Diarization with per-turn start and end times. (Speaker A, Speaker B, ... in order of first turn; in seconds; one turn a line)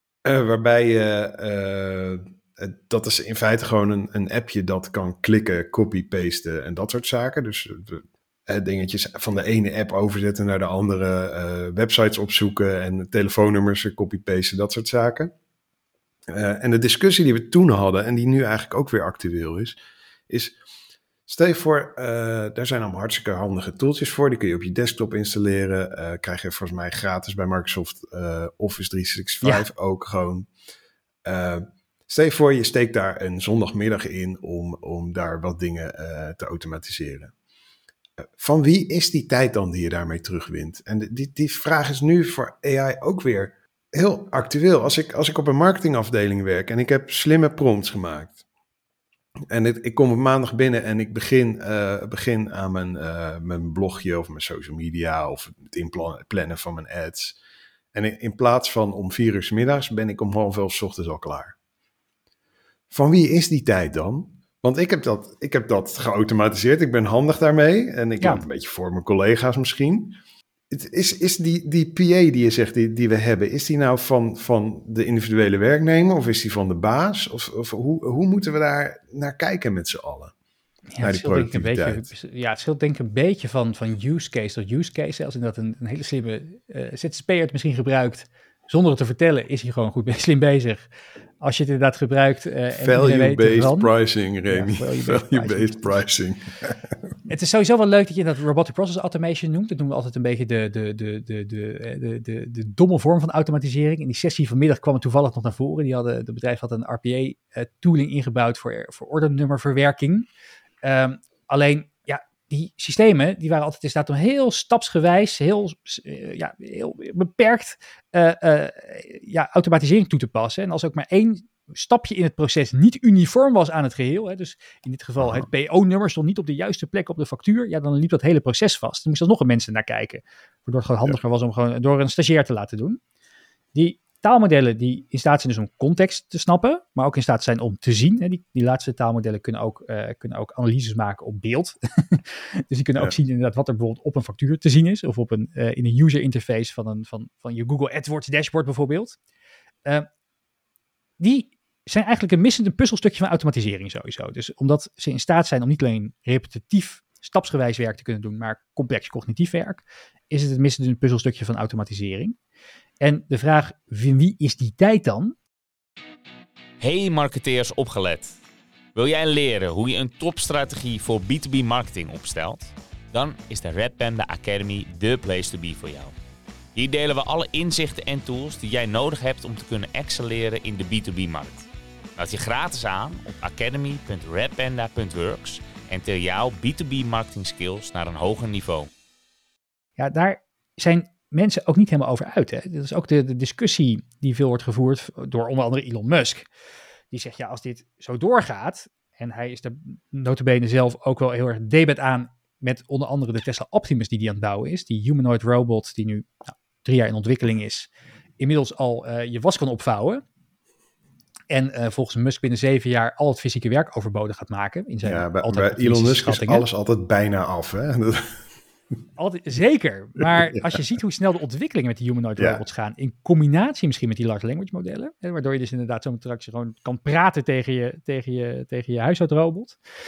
Speaker A: 0.2-15.3
Speaker A: 16.3-19.8
Speaker A: 20.3-20.5
Speaker A: 21.3-30.5
Speaker A: 31.2-37.3
Speaker A: 38.4-48.4
Speaker A: 49.5-57.4
Speaker A: 57.9-61.5
Speaker A: 62.9-70.2
Speaker A: 70.7-80.3
Speaker B: 80.9-90.8
Speaker A: 81.0-82.1
Speaker B: 91.4-93.9
Speaker A: 92.8-96.9
Speaker B: 94.5-96.0
Speaker B: 97.3-110.3
Speaker B: 110.8-133.0
Speaker B: 133.7-149.2
Speaker B: 151.2-162.3
Speaker B: 163.0-165.3
Speaker C: 166.8-168.3
Speaker C: 168.9-176.1
Speaker C: 176.7-188.9
Speaker B: 190.0-196.5
Speaker B: 197.1-210.2
Speaker B: 211.5-216.6
Speaker A: 215.0-218.4
Speaker B: 219.2-229.8
Speaker A: 222.4-222.6